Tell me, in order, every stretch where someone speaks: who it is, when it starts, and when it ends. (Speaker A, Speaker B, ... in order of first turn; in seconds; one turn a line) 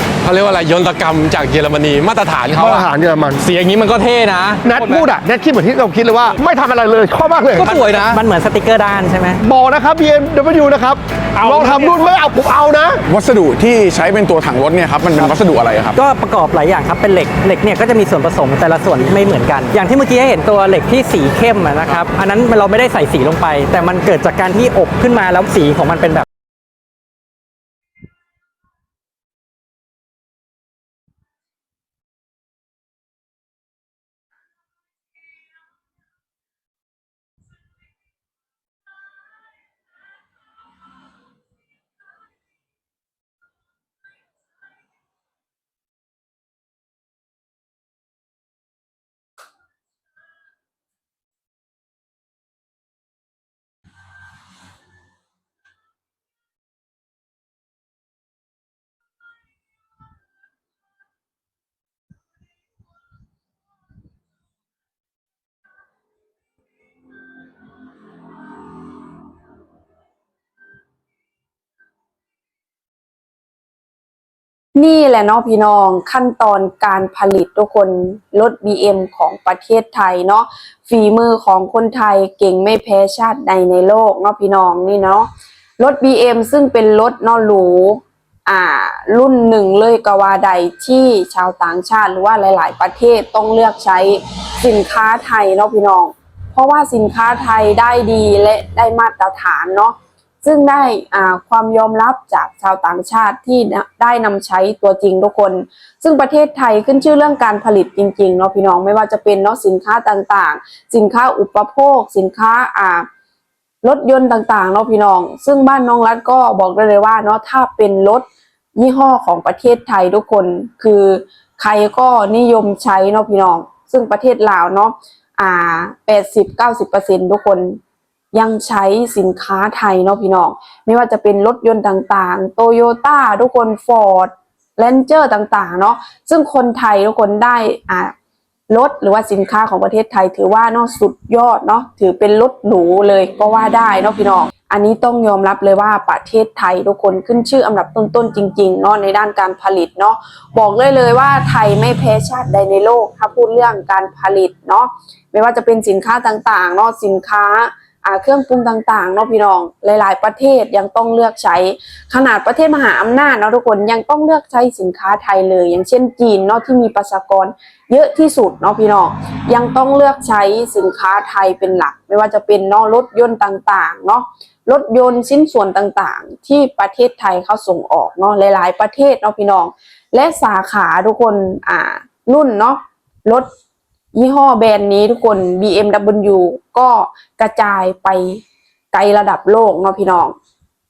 Speaker A: 0.2-5.0
Speaker B: 2.5-3.4
Speaker B: 4.6-7.8
Speaker C: 7.6-9.4
Speaker A: 7.6-8.2
Speaker B: 9.4-13.0
Speaker A: 11.4-11.9
Speaker D: 13.1-16.0
Speaker C: 15.9-26.2
Speaker E: 74.7-113.1
Speaker E: 113.8-127.8
Speaker E: 128.3-138.1
Speaker E: 138.7-183.5
Speaker E: 184.1-190.3